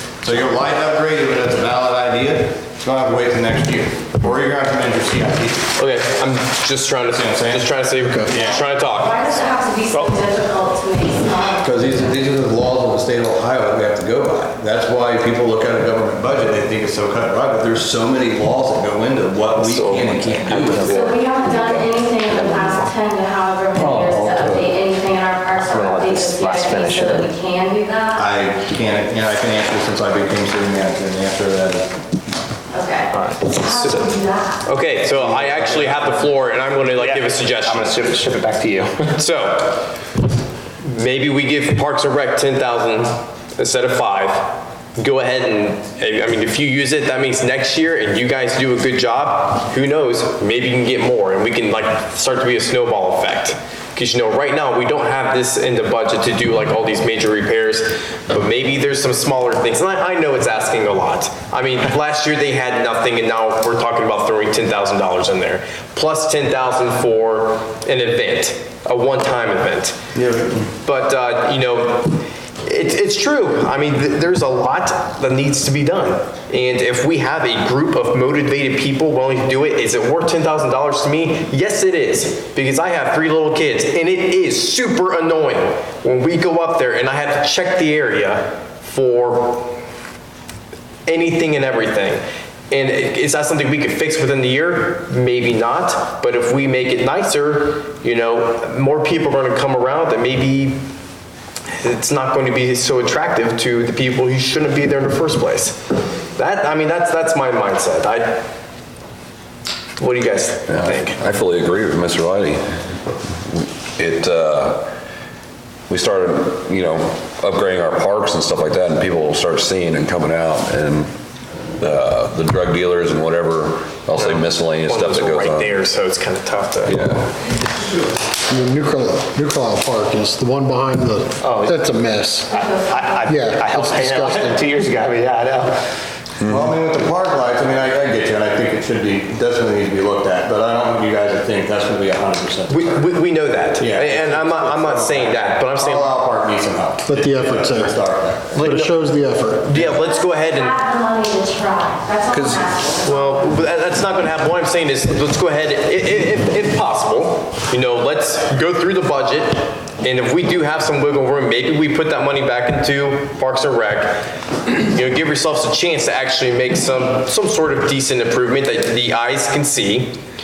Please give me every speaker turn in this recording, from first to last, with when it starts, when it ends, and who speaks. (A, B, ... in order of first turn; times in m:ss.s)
0:00.2-0:05.7 A
0:05.8-0:09.3 B
0:07.1-0:07.7 A
0:08.0-0:08.3 C
0:08.2-0:08.6 A
0:08.4-0:11.8 D
0:09.9-0:10.2 E
0:11.6-0:21.0 A
0:19.6-0:21.3 B
0:20.9-0:28.3 D
0:21.6-0:22.8 E
0:23.8-0:24.6 A
0:25.6-0:27.3 E
0:28.2-0:31.9 A
0:32.7-0:34.6 D
0:33.1-0:33.9 E
0:34.6-0:38.0 B
0:35.2-0:36.2 A
0:37.0-0:39.2 E
0:39.2-0:39.8 B
0:40.8-1:10.0 B
1:10.2-1:10.7 A
1:10.8-1:29.7 B
1:31.1-1:40.8 B
1:41.8-1:45.8 B
1:46.4-1:48.4 B
1:50.0-1:51.2 B
1:50.7-1:52.8 F
1:53.5-1:54.9 F
1:55.9-2:01.1 F
2:01.8-2:05.8 F
2:04.2-2:07.1 B
2:06.9-2:07.3 F
2:08.5-2:12.5 C
2:11.4-2:11.9 E
2:12.5-2:15.8 E
2:12.6-2:13.4 D
2:13.3-2:14.6 C
2:16.4-2:23.1 A
2:22.7-2:26.2 B
2:23.8-2:28.7 A
2:27.1-2:28.0 C
2:28.5-2:29.7 C
2:28.6-2:29.0 B
2:29.6-2:30.8 B
2:30.0-2:33.6 D
2:33.0-2:44.2 B
2:44.8-2:50.2 B